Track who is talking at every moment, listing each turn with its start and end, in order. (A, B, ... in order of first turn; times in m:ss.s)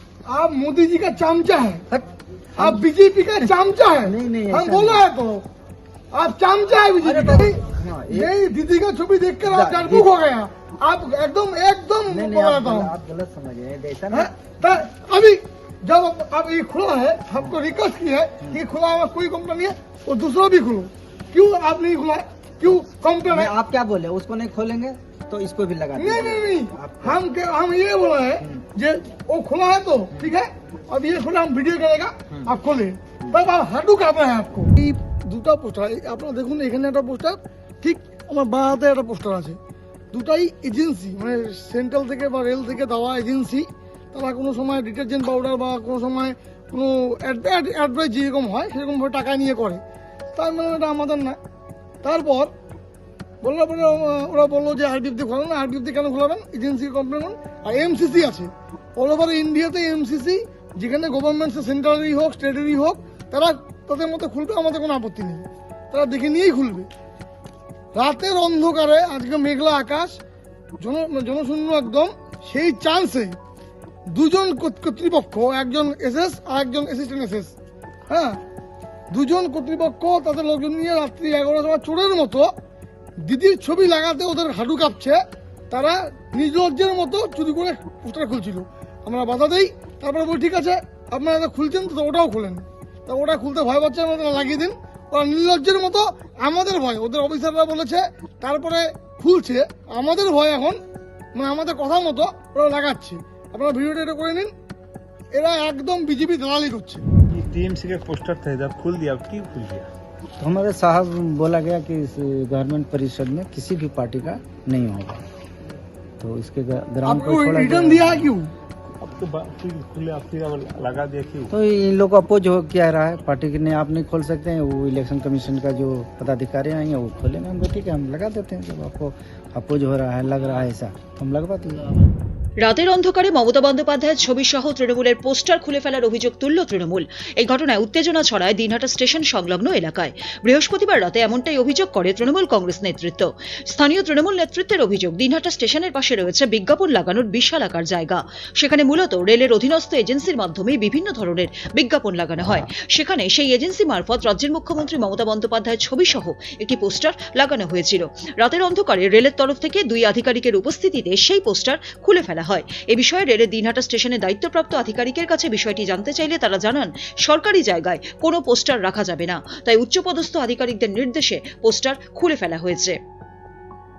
0:00.3-0:01.8 A
0:02.6-0:05.4 A
0:04.1-0:04.6 B
0:04.6-0:05.0 C
0:06.1-0:12.9 A
0:07.0-0:08.2 C
0:07.4-0:08.1 B
0:09.6-0:10.1 C
0:12.3-0:14.2 C
0:13.4-0:14.0 B
0:14.1-0:23.6 A
0:23.3-0:26.1 C
0:25.9-0:26.5 B
0:26.0-0:39.6 A
0:40.1-0:49.8 A
0:50.4-0:51.4 A
0:52.0-0:52.5 A
0:53.4-1:06.9 A
1:08.0-1:10.2 A
1:10.8-1:13.4 A
1:14.1-1:17.5 A
1:18.1-1:18.4 A
1:19.1-1:22.5 A
1:23.2-1:25.2 A
1:25.7-1:40.8 A
1:41.4-1:44.5 A
1:45.3-1:47.0 A
1:47.2-1:49.9 D
1:50.4-1:55.3 B
1:56.2-1:58.3 B
1:57.0-1:58.5 A
1:59.0-2:01.6 D
2:01.5-2:11.9 B
2:12.6-2:53.0 E